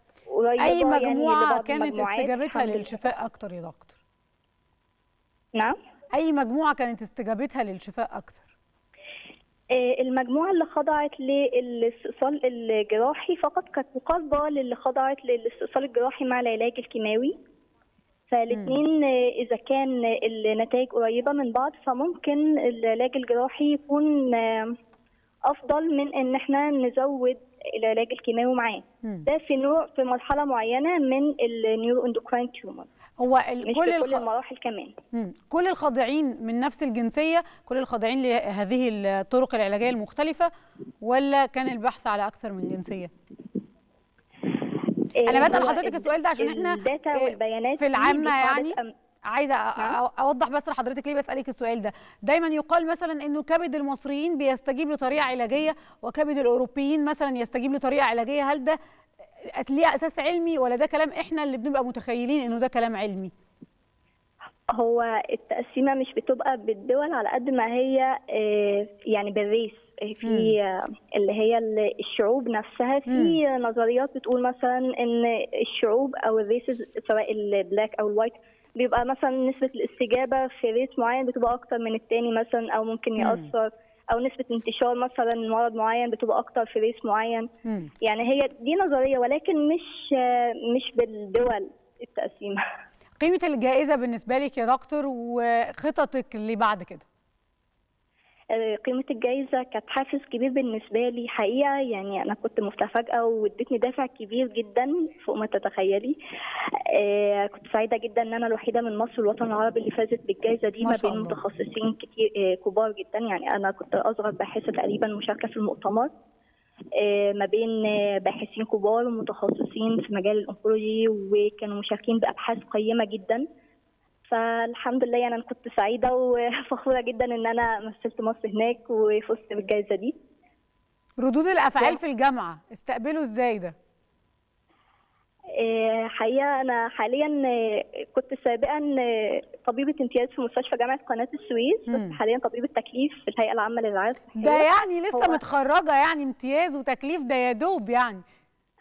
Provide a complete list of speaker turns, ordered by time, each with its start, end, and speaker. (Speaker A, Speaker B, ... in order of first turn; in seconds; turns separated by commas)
Speaker A: 0.2-2.9, Speaker B: 0.6-3.9, Speaker B: 6.1-8.4, Speaker A: 9.7-17.3, Speaker A: 18.3-24.8, Speaker B: 18.5-18.8, Speaker A: 25.5-32.9, Speaker B: 33.2-34.2, Speaker A: 33.6-34.9, Speaker B: 35.1-40.5, Speaker B: 41.0-43.1, Speaker A: 45.2-48.9, Speaker B: 45.3-58.8, Speaker B: 59.4-63.3, Speaker A: 64.8-87.5, Speaker B: 70.2-70.5, Speaker B: 73.1-73.4, Speaker B: 83.2-83.5, Speaker B: 87.6-87.9, Speaker A: 88.0-92.6, Speaker B: 93.2-97.0, Speaker A: 98.5-106.2, Speaker A: 106.9-116.1, Speaker B: 110.8-111.4, Speaker A: 117.0-123.4, Speaker A: 124.2-130.2, Speaker B: 131.2-133.8, Speaker A: 135.6-145.4, Speaker B: 141.9-142.2, Speaker B: 144.4-148.2